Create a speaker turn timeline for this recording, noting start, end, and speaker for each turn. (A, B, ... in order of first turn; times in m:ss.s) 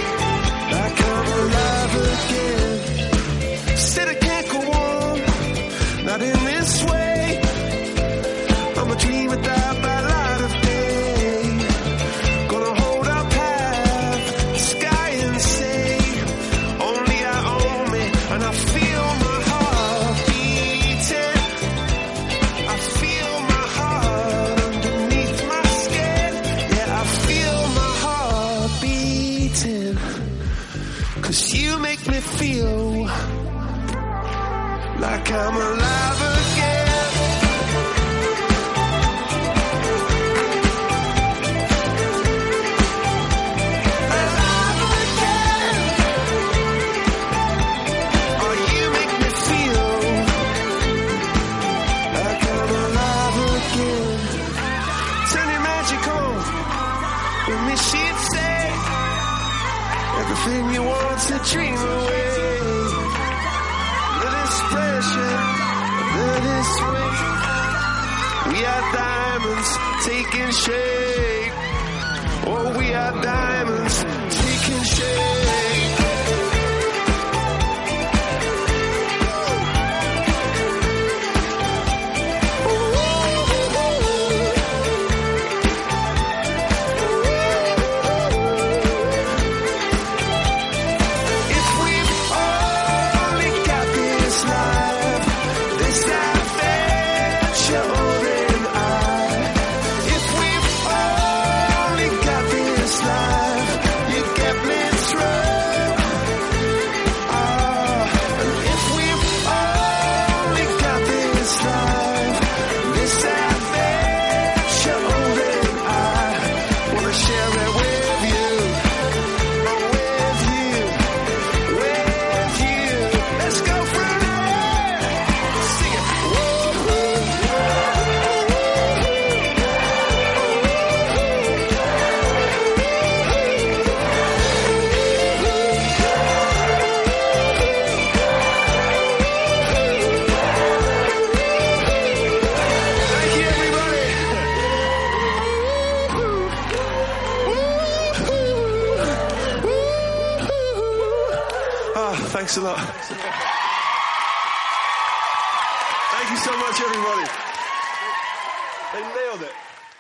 0:00.7-0:03.0 A
0:03.7-0:05.3 A
0:06.0-0:07.4 A
0:08.7-0:11.7 A
0:12.5-0:21.5 A
0:22.6-0:30.3 A
0:31.2-0:33.1 A
0:35.0-0:37.3 A
0:44.1-0:46.0 A
0:48.4-0:50.4 A
0:52.1-0:54.5 A
0:55.2-0:56.6 A
0:57.4-0:58.9 A
1:00.1-1:03.1 A
1:04.1-1:07.4 A
1:08.4-1:11.6 A
1:12.4-1:16.0 A
1:22.6-1:24.0 A
1:31.5-1:46.0 A
1:47.3-1:58.8 A
1:59.6-2:07.4 A
2:23.1-2:24.6 A
2:31.9-2:33.3 A
2:36.1-2:37.3 A
2:38.9-2:39.6 A